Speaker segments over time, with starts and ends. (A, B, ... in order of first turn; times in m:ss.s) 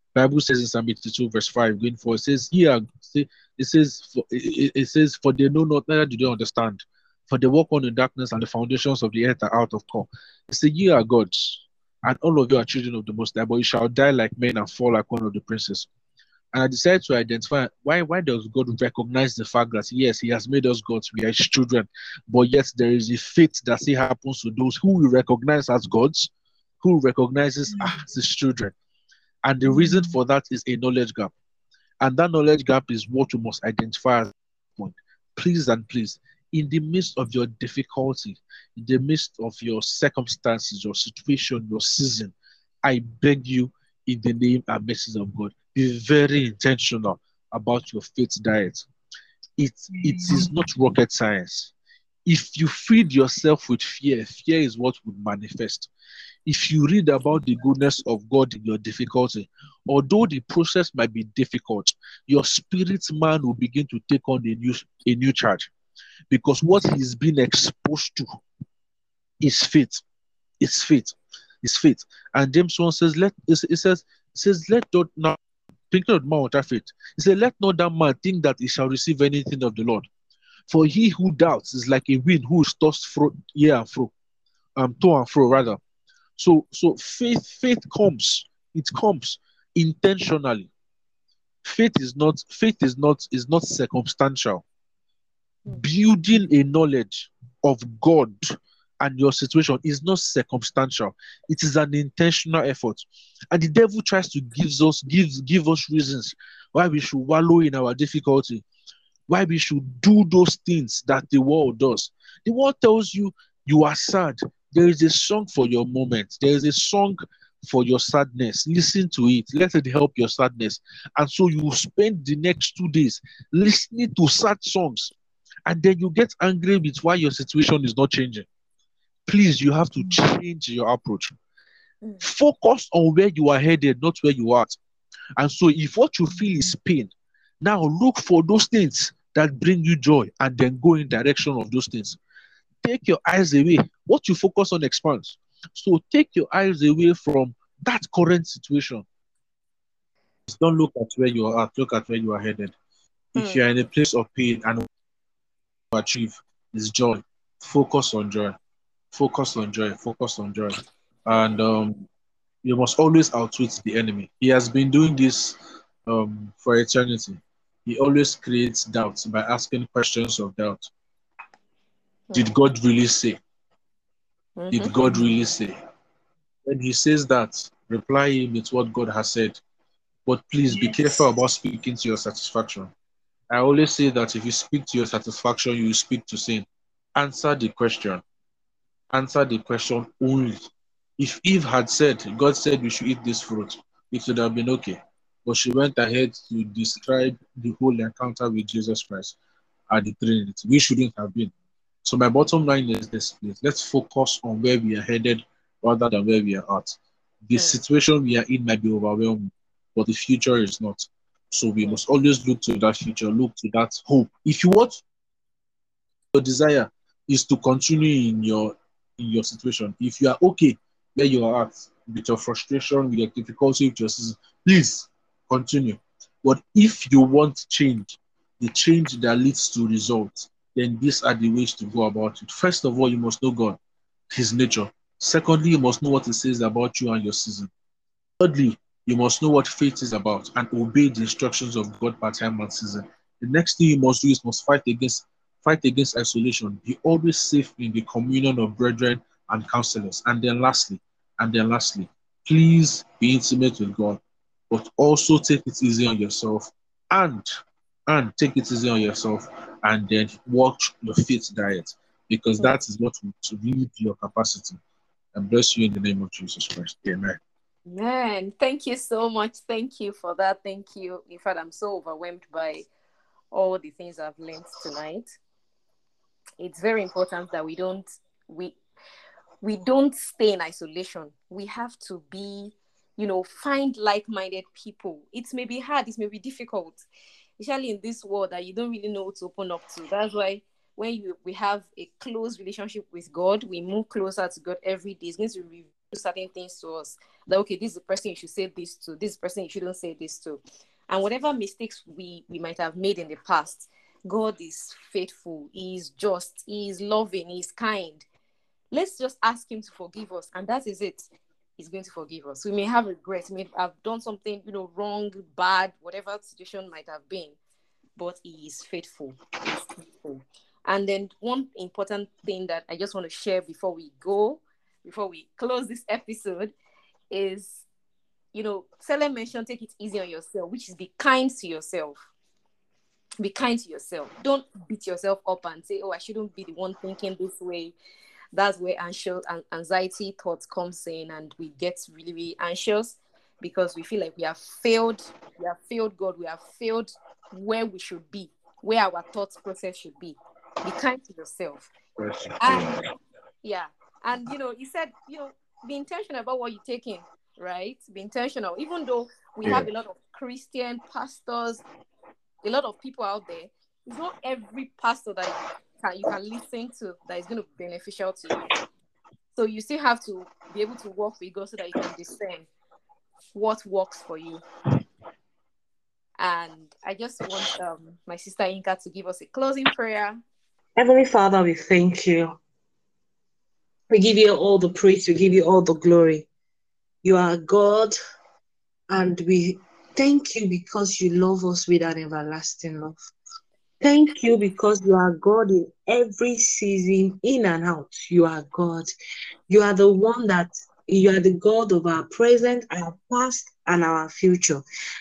0:00.1-0:15.9 A
0:16.5-0:28.7 A
0:29.4-0:31.3 A
0:32.0-0:48.9 A
0:49.6-0:51.7 A
0:52.3-0:55.9 A
0:56.5-1:05.7 A
1:06.3-1:08.4 A
1:09.4-1:10.0 A
1:10.6-1:15.4 A
1:15.9-1:20.1 A
1:20.7-1:24.1 A
1:24.8-1:25.8 A
1:26.4-1:30.7 A
1:31.6-1:34.6 A
1:35.7-1:48.6 A
1:49.3-2:05.1 A
2:05.7-2:08.5 A
2:09.3-2:11.3 A
2:12.2-2:14.8 A
2:15.4-2:22.2 A
2:22.8-2:29.0 A
2:30.5-2:32.8 A
2:33.4-2:33.6 B
2:33.4-2:34.9 A
2:35.9-2:38.6 A
2:39.1-2:42.1 A
2:42.6-2:50.9 A
2:52.3-2:53.4 A
2:54.6-2:54.9 B
2:54.7-2:55.8 A
2:56.7-2:59.6 A
3:00.3-3:02.9 A
3:00.7-3:01.2 B
3:03.5-3:08.2 A
3:09.1-3:19.4 A
3:19.9-3:21.5 A
3:22.0-3:35.0 A
3:27.6-3:27.8 B
3:36.3-3:53.8 A
3:54.3-3:57.7 A
3:58.4-4:17.5 A
4:18.1-4:24.8 A
4:25.3-4:27.4 A
4:27.9-4:32.9 B
4:33.5-4:35.3 B
4:36.6-4:38.8 B
4:39.6-4:47.0 B
4:47.6-5:08.3 B
5:08.9-5:17.6 B
5:18.2-5:26.7 B
5:27.3-5:27.9 B
5:28.5-5:32.3 B
5:33.4-5:38.0 B
5:38.5-5:51.9 B
5:52.2-5:53.1 A
5:52.6-5:52.9 B
5:53.6-6:01.8 B
5:59.6-5:59.9 A
6:02.6-6:08.6 B
6:09.5-6:12.7 B
6:13.5-6:14.6 B
6:16.4-6:20.4 B
6:21.0-6:22.6 C
6:24.1-6:26.5 C
6:27.2-6:28.2 C
6:29.1-6:33.2 C
6:34.0-6:39.1 C
6:39.7-6:44.8 C